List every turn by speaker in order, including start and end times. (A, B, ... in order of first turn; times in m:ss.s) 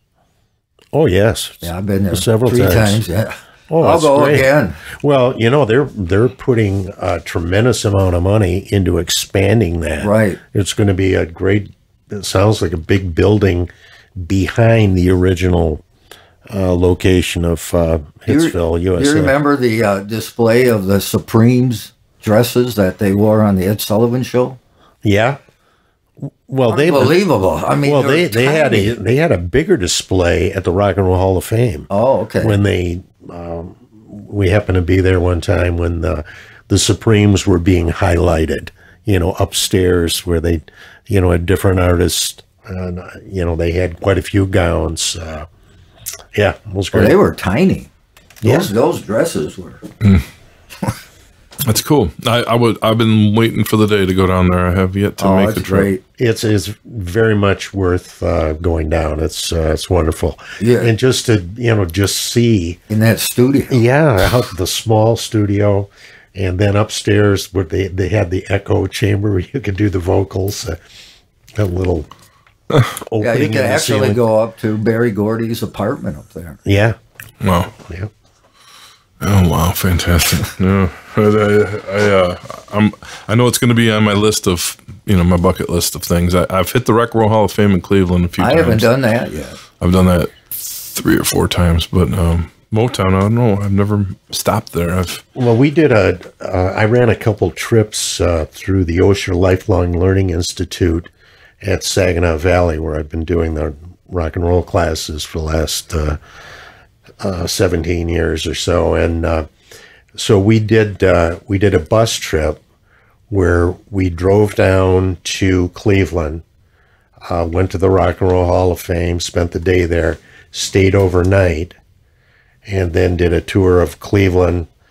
0:00.9-0:03.0 A
0:01.6-0:04.8 B
0:03.7-0:15.8 A
0:10.0-0:10.4 B
0:16.5-0:19.3 A
0:18.3-0:24.6 B
0:25.0-0:25.4 A
0:26.2-0:27.2 A
0:26.7-0:28.9 B
0:27.8-0:31.9 A
0:31.9-0:32.6 B
0:32.4-0:45.5 A
0:46.3-0:47.2 A
0:46.9-0:47.9 B
0:48.4-0:48.7 A
0:48.4-0:49.8 B
0:50.0-0:50.3 C
0:51.6-0:55.9 C
0:55.2-0:56.0 B
0:56.2-1:02.8 A
1:00.6-1:00.9 B
1:02.9-1:03.8 B
1:03.7-1:10.8 A
1:11.6-1:12.1 A
1:13.0-1:14.2 A
1:13.2-1:16.6 B
1:16.6-1:17.0 A
1:17.4-1:17.7 C
1:19.2-1:28.9 C
1:28.4-1:29.6 B
1:29.8-1:35.2 C
1:35.4-1:41.1 A
1:41.6-1:46.2 A
1:47.2-1:49.5 A
1:50.2-1:52.6 A
1:53.3-1:56.4 A
1:57.3-2:01.8 A
2:02.7-2:04.7 A